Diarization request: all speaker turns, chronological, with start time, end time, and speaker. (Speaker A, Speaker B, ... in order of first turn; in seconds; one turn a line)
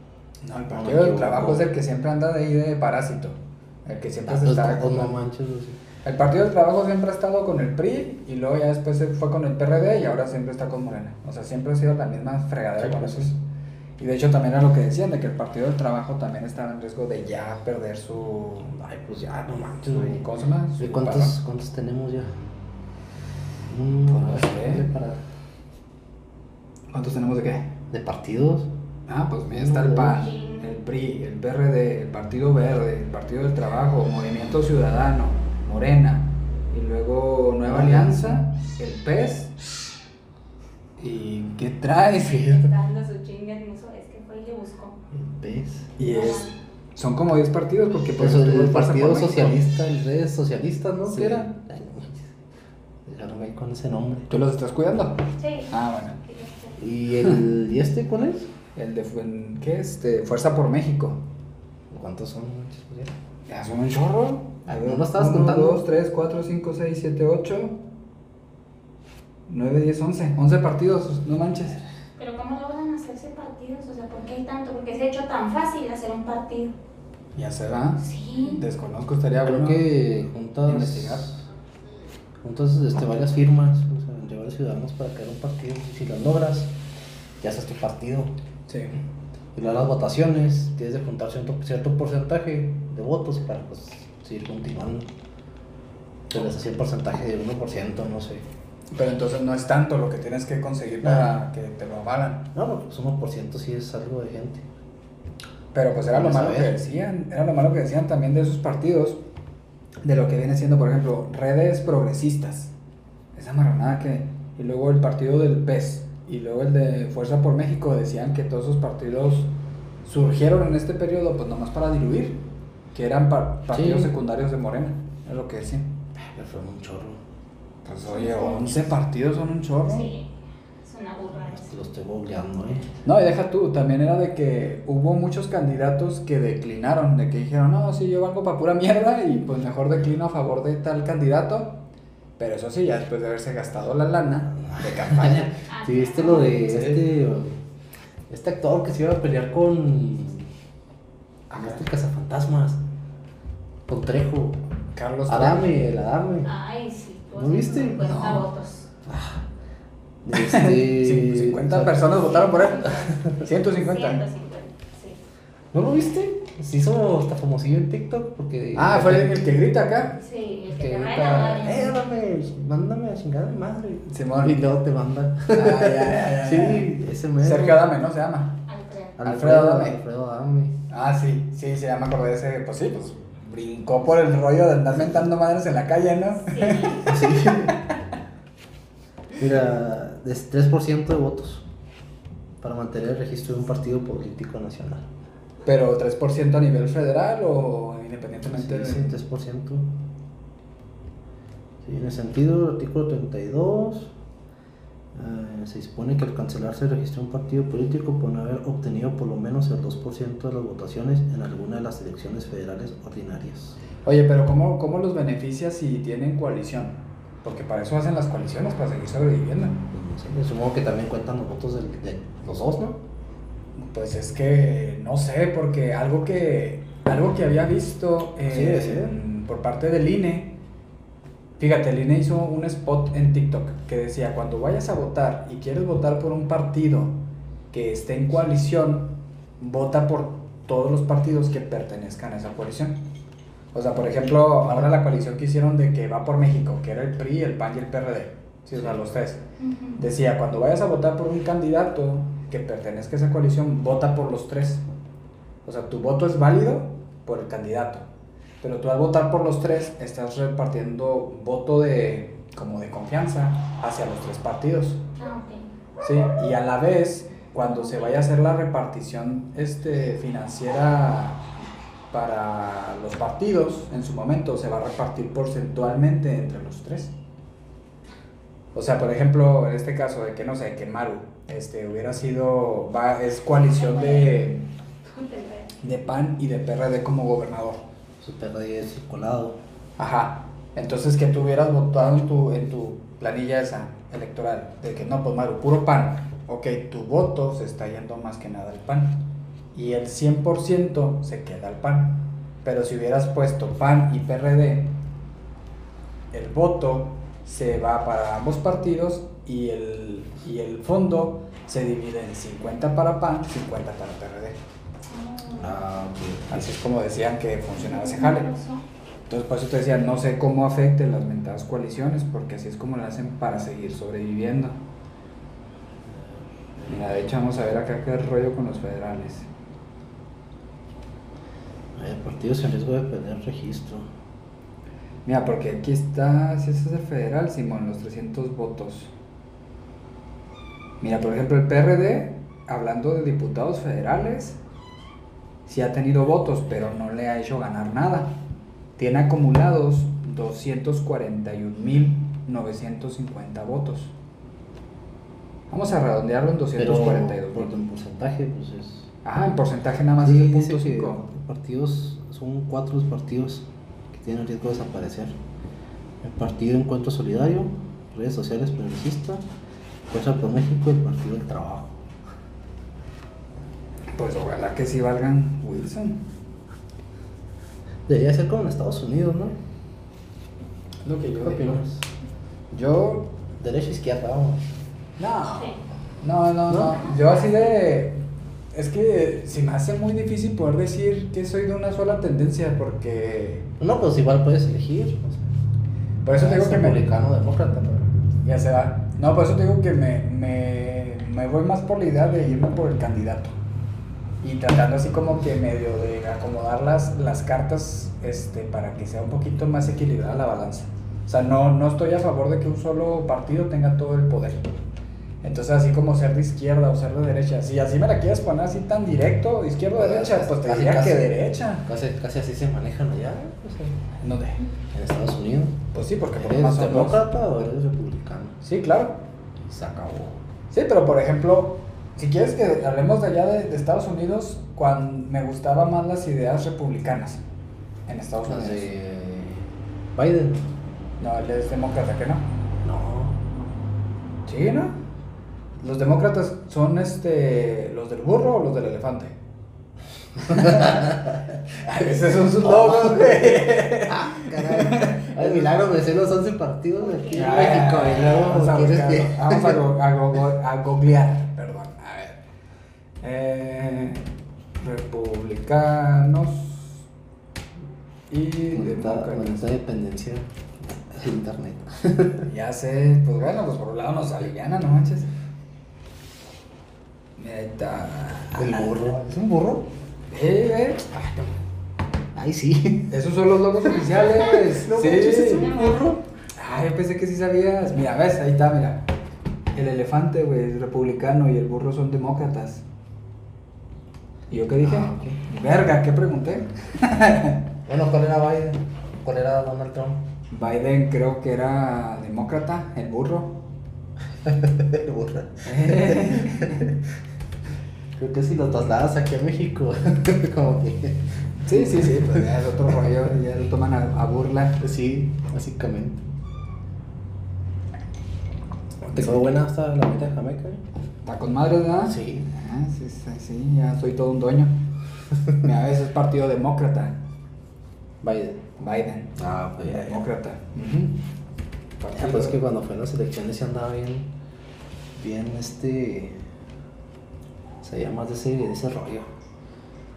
Speaker A: 0.4-5.1
Speaker B: 0.7-1.7
Speaker B: 4.2-5.8
Speaker A: 6.0-13.4
Speaker B: 12.8-13.3
Speaker A: 14.0-18.8
Speaker B: 18.8-20.2
Speaker A: 19.7-21.4
Speaker B: 20.8-22.4
Speaker B: 23.7-25.2
Speaker A: 24.1-24.9
Speaker A: 26.9-27.7
Speaker B: 27.9-28.7
Speaker A: 29.1-39.5
Speaker B: 29.5-30.3
Speaker C: 30.1-30.7
Speaker B: 37.6-38.4
Speaker A: 41.0-42.7
Speaker C: 42.1-45.0
Speaker B: 45.1-46.0
Speaker A: 46.0-49.7
Speaker C: 46.0-46.5
Speaker B: 48.1-52.3
Speaker A: 51.1-51.5
Speaker B: 53.1-54.3
Speaker A: 54.3-56.2
Speaker C: 55.4-56.8
Speaker B: 56.8-58.5
Speaker A: 58.8-61.2
Speaker B: 61.9-63.1
Speaker A: 63.5-67.8
Speaker B: 64.7-65.8
Speaker A: 69.5-71.8
Speaker C: 72.2-76.8
Speaker A: 77.3-79.8
Speaker C: 78.0-78.6
Speaker B: 79.4-81.5
Speaker A: 80.7-81.3
Speaker B: 82.4-86.7
Speaker B: 87.4-88.3
Speaker A: 88.7-89.0
Speaker B: 89.5-95.1
Speaker B: 96.3-98.5
Speaker A: 98.9-102.5
Speaker B: 101.0-101.4
Speaker B: 102.5-104.7
Speaker A: 105.7-109.2
Speaker B: 106.1-106.8
Speaker A: 110.0-112.7
Speaker A: 113.3-119.5
Speaker A: 120.0-122.4
Speaker A: 122.9-125.9
Speaker B: 123.7-124.1
Speaker B: 126.3-127.2
Speaker A: 127.8-130.1
Speaker C: 128.1-128.8
Speaker C: 129.9-130.3
Speaker C: 130.8-131.8
Speaker B: 131.5-132.9
Speaker A: 133.1-141.8
Speaker A: 142.4-145.6
Speaker B: 144.7-147.6
Speaker C: 145.7-146.7
Speaker A: 146.5-147.1
Speaker B: 148.3-150.5
Speaker A: 151.5-151.8
Speaker B: 151.5-152.8
Speaker B: 153.9-154.6
Speaker A: 154.9-155.8
Speaker B: 155.3-156.5
Speaker C: 156.4-158.9
Speaker B: 157.3-158.2
Speaker A: 158.0-158.5
Speaker B: 159.1-159.5
Speaker B: 160.2-162.3
Speaker A: 160.3-164.2
Speaker C: 162.1-165.2
Speaker B: 162.9-163.4
Speaker B: 165.7-169.4
Speaker A: 168.8-170.2
Speaker C: 170.2-172.0
Speaker B: 170.7-177.9
Speaker A: 174.1-174.6
Speaker A: 175.5-178.6
Speaker C: 178.7-179.2
Speaker B: 179.2-180.8
Speaker A: 179.2-180.0
Speaker A: 180.9-188.0
Speaker C: 186.4-187.2
Speaker B: 187.1-187.8
Speaker B: 189.4-191.7
Speaker B: 192.6-195.1
Speaker A: 195.7-199.2
Speaker B: 198.5-199.9
Speaker B: 201.8-204.1
Speaker B: 205.1-213.8
Speaker A: 214.0-219.8
Speaker B: 219.9-223.0
Speaker A: 223.8-230.6
Speaker B: 228.5-229.2
Speaker A: 231.6-237.2
Speaker A: 237.7-243.0
Speaker A: 243.7-249.4
Speaker B: 248.7-249.0
Speaker C: 249.6-250.0
Speaker A: 250.0-254.8
Speaker A: 255.7-258.1
Speaker A: 258.6-265.1
Speaker C: 265.2-265.7
Speaker A: 266.0-271.4
Speaker C: 267.8-268.1
Speaker A: 272.1-277.1
Speaker A: 278.7-284.6
Speaker C: 283.7-284.5
Speaker C: 285.1-285.8
Speaker A: 285.8-287.8
Speaker B: 288.2-289.6
Speaker A: 290.0-299.2
Speaker A: 299.7-304.9
Speaker A: 306.3-314.6
Speaker C: 315.1-315.8
Speaker B: 315.6-316.6
Speaker A: 316.5-318.5
Speaker C: 317.8-318.8
Speaker A: 319.3-324.8
Speaker A: 326.9-329.5
Speaker B: 332.0-334.1
Speaker A: 335.2-339.1
Speaker A: 341.0-344.6
Speaker A: 345.7-348.4
Speaker A: 349.0-354.1
Speaker A: 355.7-357.8
Speaker B: 356.8-359.1
Speaker A: 359.2-361.2
Speaker B: 360.2-365.4
Speaker B: 366.2-369.4
Speaker B: 370.1-372.0
Speaker A: 374.1-376.2
Speaker B: 378.1-379.6
Speaker A: 381.0-381.8
Speaker B: 381.4-382.1
Speaker A: 382.7-383.3
Speaker B: 383.6-384.7
Speaker A: 385.2-393.7
Speaker C: 385.6-385.8
Speaker B: 386.7-387.0
Speaker C: 386.9-387.8
Speaker B: 393.8-395.5
Speaker A: 396.2-397.0
Speaker B: 396.3-398.1
Speaker A: 398.4-403.5
Speaker A: 404.4-414.7
Speaker A: 415.4-421.9
Speaker B: 419.9-424.0
Speaker A: 424.2-424.6
Speaker B: 424.9-425.8
Speaker A: 425.9-427.2
Speaker B: 426.4-428.6
Speaker A: 428.6-429.2
Speaker B: 429.6-430.4
Speaker A: 430.7-437.4
Speaker A: 438.1-438.9
Speaker B: 438.4-440.7
Speaker A: 441.2-442.5
Speaker B: 442.8-443.4
Speaker A: 444.5-445.0
Speaker A: 445.8-449.4
Speaker A: 450.4-451.2
Speaker B: 450.5-459.8
Speaker A: 451.8-455.9
Speaker C: 457.0-458.0
Speaker A: 457.4-462.4
Speaker A: 463.2-464.2
Speaker A: 464.8-467.0
Speaker A: 468.3-469.7
Speaker B: 468.7-472.5
Speaker A: 472.4-475.3
Speaker A: 477.4-479.0
Speaker B: 478.5-479.9
Speaker A: 480.3-481.2
Speaker B: 481.2-481.5
Speaker B: 482.3-483.1
Speaker A: 483.1-485.7
Speaker B: 484.0-486.2
Speaker C: 485.4-486.1
Speaker A: 486.6-489.0
Speaker A: 489.7-492.8
Speaker A: 494.5-497.6
Speaker B: 494.8-495.4
Speaker B: 497.9-500.2
Speaker A: 500.5-503.6
Speaker B: 504.4-506.9
Speaker A: 505.6-506.9
Speaker B: 508.2-512.5
Speaker A: 511.6-514.8
Speaker B: 514.8-516.2
Speaker B: 519.0-520.8
Speaker A: 519.1-519.5
Speaker A: 521.2-524.8
Speaker B: 522.0-522.5
Speaker A: 525.5-527.2
Speaker B: 528.2-528.6
Speaker A: 528.8-531.2
Speaker B: 529.4-530.3
Speaker A: 532.0-532.6
Speaker B: 532.1-534.3
Speaker B: 535.1-536.4
Speaker B: 537.8-539.3